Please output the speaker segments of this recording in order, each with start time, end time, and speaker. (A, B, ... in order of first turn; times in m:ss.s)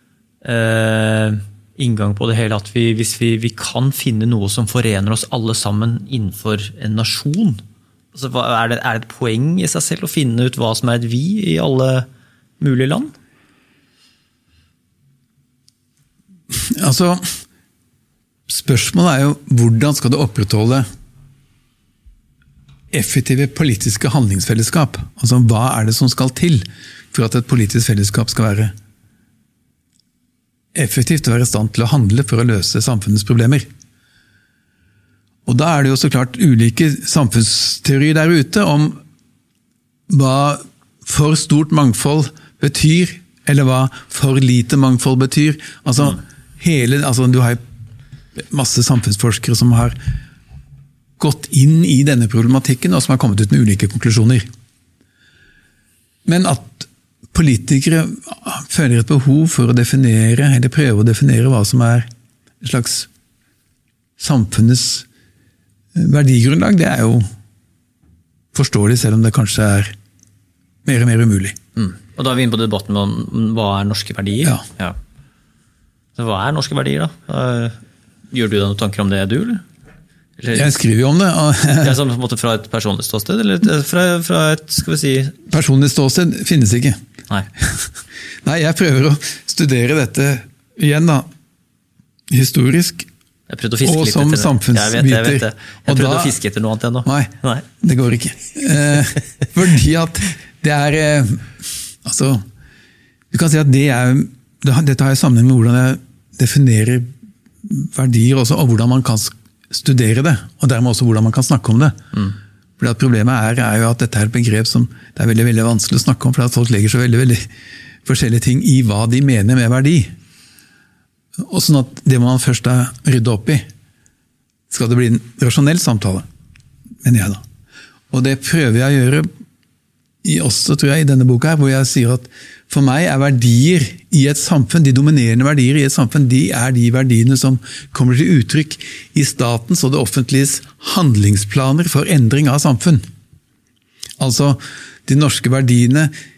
0:00.4-0:07.6 A
0:08.1-0:12.1 A
0:12.6-0:13.1 A
0:16.5-0:17.2 B
0:18.5-0:20.8 B
0:22.9-0:28.7 B
0:30.7-0:33.6 B
0:35.4-0:39.0 B
0:40.1-0:47.6 B
0:48.4-0:49.9 B
0:51.2-0:54.4 B
0:56.2-1:02.1 B
1:02.6-1:03.1 B
1:04.2-1:05.1 B
1:05.9-1:07.2 B
1:08.5-1:09.9 B
1:10.8-1:11.5 B
1:11.8-1:15.0 A
1:16.1-1:17.8 A
1:18.3-1:19.6 A
1:20.4-1:20.7 A
1:20.5-1:22.0 B
1:21.8-1:25.4 A
1:25.5-1:27.0 B
1:27.6-1:27.9 B
1:28.4-1:31.3 B
1:32.3-1:33.1 B
1:33.5-1:37.6 A
1:33.8-1:36.4 B
1:37.0-1:42.4 B
1:43.3-1:47.1 B
1:47.6-1:52.0 B
1:52.8-1:57.4 B
1:58.0-2:00.1 B
2:01.4-2:03.6 B
2:04.7-2:06.3 B
2:07.0-2:07.4 B
2:08.1-2:09.2 B
2:10.2-2:23.0 B
2:24.2-2:26.1 B